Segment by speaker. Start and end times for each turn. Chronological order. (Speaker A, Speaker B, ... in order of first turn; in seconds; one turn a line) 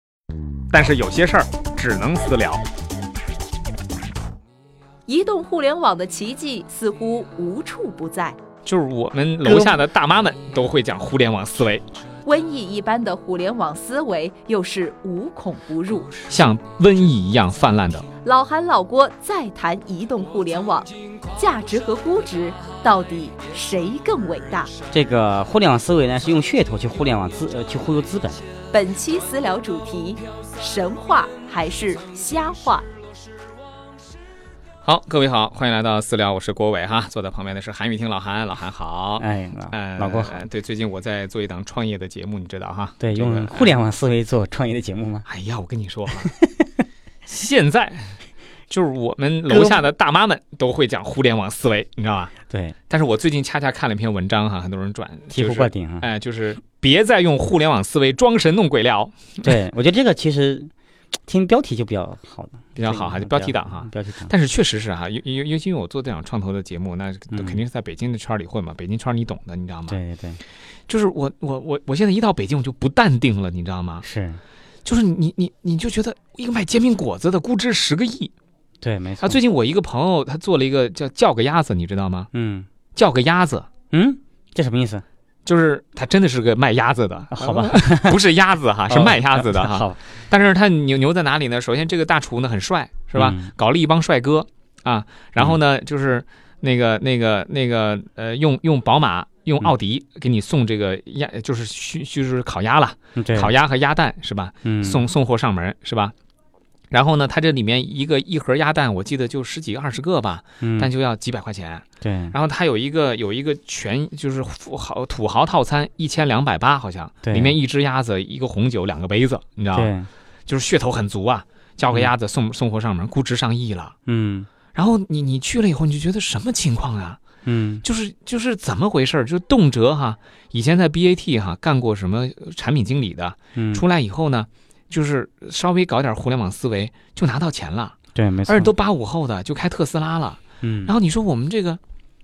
Speaker A: 0.7-2.6
Speaker B: 5.1-8.4
Speaker A: 8.7-11.9
Speaker B: 12.2-16.3
Speaker A: 16.3-18.1
Speaker B: 18.2-24.7
Speaker C: 24.9-28.4
Speaker B: 28.7-32.9
Speaker A: 34.8-43.8
Speaker C: 39.2-40.4
Speaker C: 43.0-45.3
Speaker A: 45.3-46.3
Speaker C: 46.3-46.7
Speaker A: 47.3-48.2
Speaker A: 48.7-52.3
Speaker C: 49.5-49.8
Speaker C: 52.5-52.8
Speaker A: 52.9-59.5
Speaker C: 55.3-56.1
Speaker C: 59.4-60.7
Speaker C: 61.2-64.3
Speaker A: 62.8-70.0
Speaker C: 67.3-67.6
Speaker C: 69.9-70.4
Speaker A: 70.9-74.0
Speaker C: 74.0-74.4
Speaker A: 74.8-78.3
Speaker C: 78.8-79.4
Speaker A: 79.2-82.3
Speaker C: 82.3-82.7
Speaker A: 83.0-83.7
Speaker C: 83.9-85.0
Speaker A: 85.5-106.1
Speaker C: 87.3-88.2
Speaker C: 88.9-90.0
Speaker C: 93.1-93.5
Speaker C: 103.2-103.5
Speaker C: 104.7-105.1
Speaker A: 106.9-119.9
Speaker C: 110.6-110.9
Speaker C: 112.0-112.3
Speaker C: 117.2-117.6
Speaker C: 119.7-120.1
Speaker A: 120.5-123.9
Speaker C: 124.1-124.5
Speaker A: 124.8-127.2
Speaker C: 127.5-127.8
Speaker A: 127.8-138.0
Speaker C: 133.6-133.8
Speaker C: 138.2-138.7
Speaker A: 138.5-141.8
Speaker C: 140.6-140.9